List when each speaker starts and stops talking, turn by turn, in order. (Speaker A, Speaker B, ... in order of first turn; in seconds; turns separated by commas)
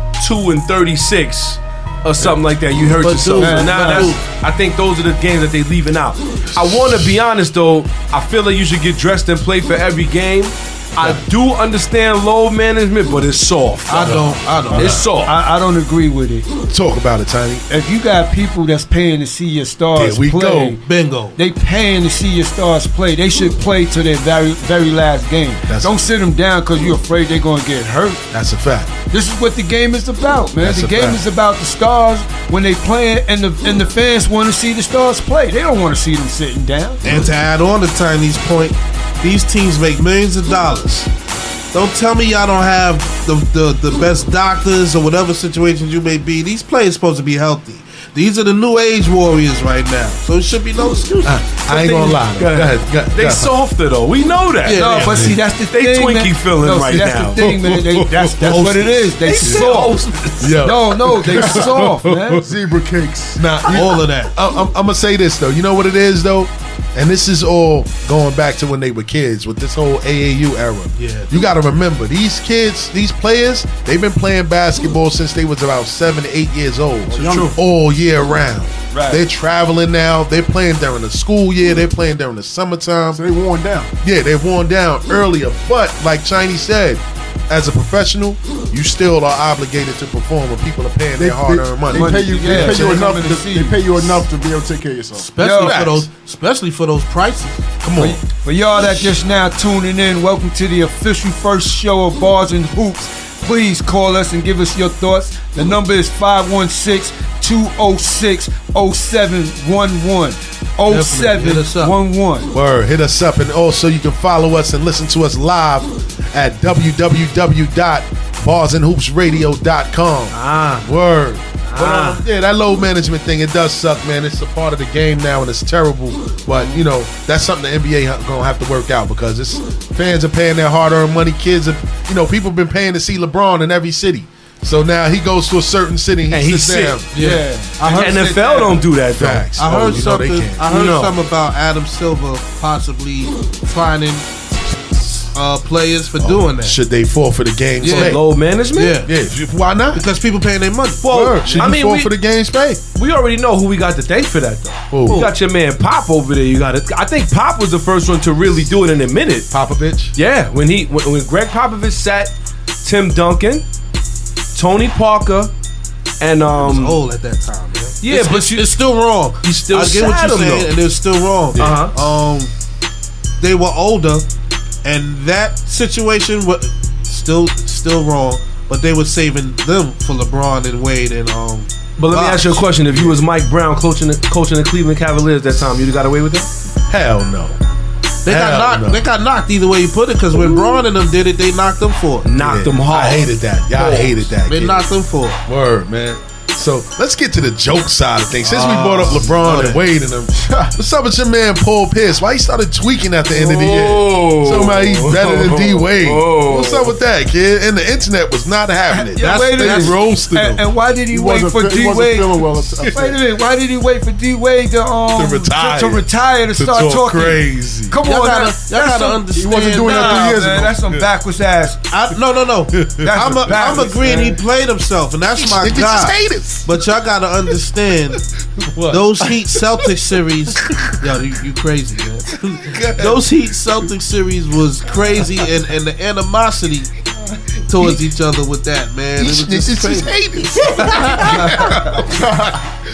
Speaker A: 0.2-15.3, Speaker B: 2.9-4.2, Speaker C: 3.4-4.1, Speaker D: 6.5-7.1, Speaker B: 13.9-15.0, Speaker D: 14.0-15.1, Speaker C: 15.2-16.5, Speaker D: 16.7-17.6, Speaker C: 17.7-20.8, Speaker D: 19.9-20.8, Speaker B: 20.8-21.4, Speaker C: 21.4-28.2, Speaker D: 25.6-26.0, Speaker D: 28.3-28.9, Speaker C: 29.1-37.0, Speaker D: 30.6-31.2, Speaker B: 37.0-41.1, Speaker B: 41.7-51.4, Speaker D: 51.2-53.5, Speaker A: 51.6-55.1, Speaker B: 54.6-55.3, Speaker C: 54.7-59.9, Speaker A: 55.7-57.4, Speaker D: 56.9-59.7, Speaker A: 59.2-60.6, Speaker D: 60.4-62.4, Speaker C: 60.6-62.5, Speaker E: 61.2-61.9, Speaker E: 62.4-63.9, Speaker D: 63.4-83.2, Speaker B: 63.7-64.3, Speaker B: 71.0-71.3, Speaker B: 77.1-77.6, Speaker E: 77.2-77.4, Speaker C: 78.9-79.2, Speaker E: 83.1-83.9, Speaker D: 84.0-93.1, Speaker E: 91.2-95.4, Speaker C: 91.9-94.2, Speaker B: 95.1-97.7, Speaker C: 95.4-95.8, Speaker D: 95.6-96.1, Speaker D: 97.8-98.2, Speaker C: 98.0-112.5, Speaker B: 110.9-112.0, Speaker D: 112.5-137.1, Speaker A: 120.3-120.9, Speaker A: 121.7-122.2, Speaker A: 136.3-137.1, Speaker B: 137.1-138.2, Speaker C: 137.2-138.8, Speaker A: 137.9-139.4, Speaker D: 139.1-140.6, Speaker B: 139.6-146.8, Speaker A: 140.7-141.1, Speaker D: 146.2-148.2, Speaker B: 147.8-148.2, Speaker A: 147.8-149.0, Speaker B: 148.7-149.1, Speaker D: 149.0-150.0, Speaker B: 149.9-151.7, Speaker A: 151.0-152.1, Speaker D: 151.0-152.8, Speaker A: 152.9-159.5, Speaker D: 154.9-155.3, Speaker D: 159.5-160.1, Speaker A: 160.1-163.7, Speaker A: 164.5-165.5, Speaker A: 166.2-167.0, Speaker B: 166.5-172.5, Speaker A: 168.0-168.8, Speaker A: 169.4-170.7, Speaker A: 171.6-171.9, Speaker B: 173.4-174.3, Speaker B: 174.8-183.1, Speaker A: 182.0-186.5, Speaker D: 186.9-187.6, Speaker B: 188.2-192.3, Speaker D: 188.2-189.0, Speaker A: 192.2-194.3, Speaker D: 192.3-194.8, Speaker B: 194.5-195.4, Speaker D: 195.5-210.6, Speaker E: 198.5-199.4, Speaker E: 200.3-200.7, Speaker A: 203.3-206.9, Speaker C: 208.9-221.8, Speaker B: 209.2-210.0, Speaker E: 211.1-213.2, Speaker D: 215.1-218.0, Speaker B: 218.0-220.4, Speaker E: 219.3-220.8, Speaker B: 221.9-228.2, Speaker D: 222.8-223.5, Speaker C: 223.0-224.4, Speaker D: 225.3-226.7, Speaker D: 228.7-229.8, Speaker B: 228.9-236.9, Speaker D: 232.6-233.2, Speaker B: 237.7-240.1, Speaker D: 239.2-242.3, Speaker B: 240.7-241.6, Speaker E: 242.1-242.6